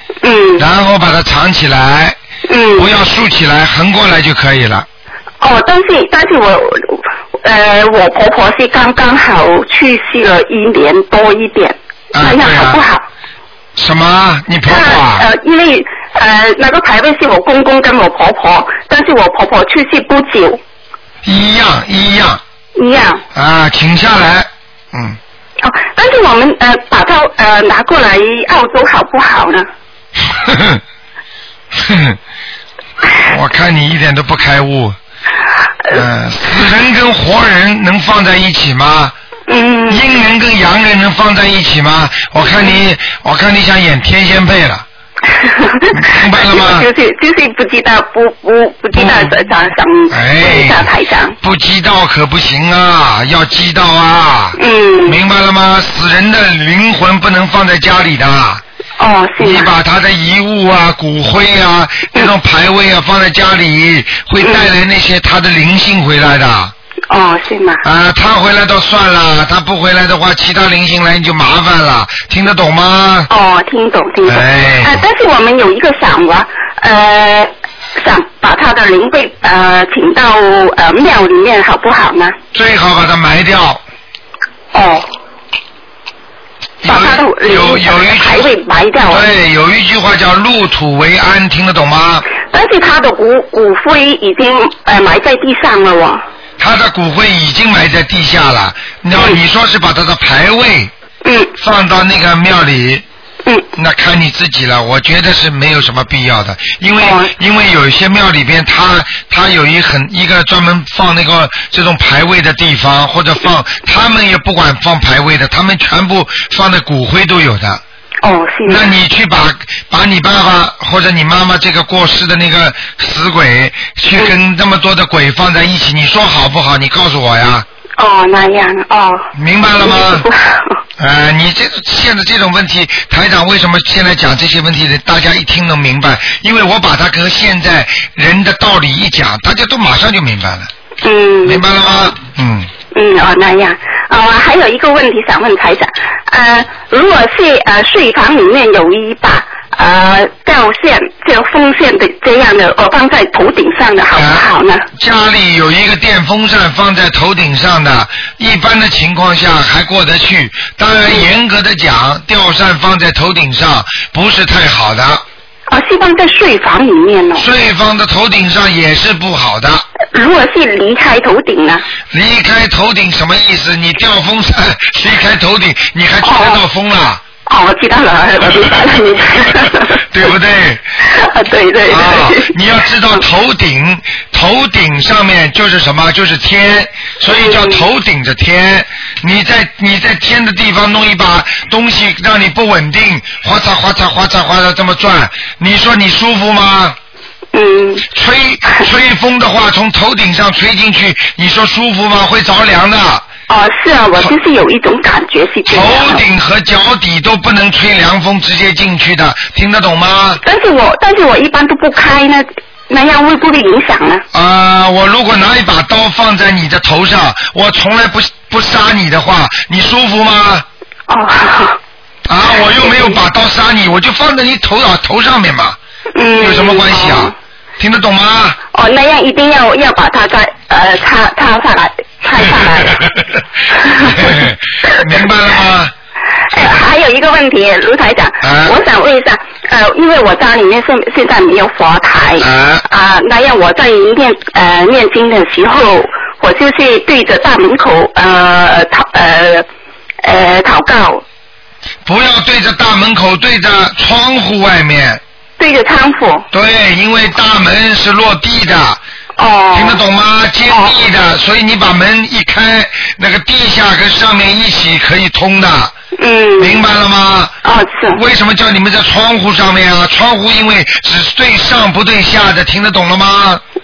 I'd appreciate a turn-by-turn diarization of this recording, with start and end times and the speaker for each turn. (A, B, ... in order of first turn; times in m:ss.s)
0:00.2-0:00.7 A
0:00.6-0:02.2 B
0:02.5-0:02.9 A
0:02.8-0:04.9 B
0:05.4-0:13.0 A
0:12.1-0:12.8 B
0:13.8-0:15.2 B
0:14.6-0:20.6 A
0:21.2-0:22.4 B
0:22.8-0:23.2 A
0:23.3-0:25.2 B
0:25.6-0:29.7 A
0:30.3-0:30.8 B
0:31.7-0:32.2 B
0:33.2-0:35.0 B
0:35.9-0:39.1 B
0:39.5-0:40.1 A
0:39.9-0:44.8 B
0:42.4-0:42.8 A
0:45.3-0:51.4 A
0:45.9-0:46.9 B
0:49.0-0:49.3 B
0:50.1-0:50.9 B
0:51.4-0:58.6 B
0:54.6-0:55.2 A
0:59.0-0:59.7 A
0:59.4-1:06.7 B
1:04.4-1:04.7 A
1:07.1-1:07.8 A
1:07.8-1:13.3 B
1:13.3-1:22.4 A
1:14.3-1:15.0 B
1:22.5-1:23.8 B
1:24.7-1:25.1 A
1:26.8-1:28.5 B
1:26.8-1:29.2 A
1:29.1-1:32.2 B
1:32.5-1:36.2 A
1:36.6-1:40.9 B
1:39.1-1:39.4 A
1:41.2-1:41.5 A
1:41.6-1:43.0 B
1:43.8-1:57.8 B
1:47.0-1:47.3 A
1:58.2-1:58.9 A
1:58.7-2:07.6 B
2:08.0-2:10.8 A
2:09.3-2:10.2 B
2:11.0-2:20.7 B
2:21.0-2:21.6 A
2:21.4-2:22.7 B
2:22.9-2:34.9 A
2:34.2-2:34.4 B
2:34.9-2:45.2 B
2:45.7-2:47.5 A
2:47.4-2:49.8 B
2:50.1-2:51.8 A
2:52.1-2:57.2 B
2:56.2-2:56.6 A
2:57.4-3:00.0 A
3:00.0-3:00.8 B
3:01.1-3:03.2 A
3:01.9-3:17.0 B
3:07.2-3:07.9 A
3:17.5-3:18.1 A
3:18.1-3:23.2 B
3:23.5-3:26.2 A
3:25.7-3:30.4 B
3:30.4-3:34.2 A
3:34.3-3:40.6 B
3:41.1-3:41.8 A
3:42.3-3:45.8 B
3:42.5-3:43.2 A
3:46.1-3:47.3 A
3:46.4-3:48.6 B
3:48.7-3:53.0 A
3:53.7-3:54.5 A
3:54.0-3:55.9 B
3:56.5-4:09.7 A
3:58.4-3:58.7 B
4:02.4-4:02.8 B
4:10.2-4:11.2 A
4:12.0-4:15.2 B
4:15.6-4:16.5 A
4:16.5-4:19.0 B
4:19.4-4:20.0 A
4:19.7-4:25.9 B
4:20.7-4:21.0 A
4:26.2-4:26.8 A
4:26.6-4:27.5 B
4:27.6-4:28.2 A
4:28.1-4:33.6 B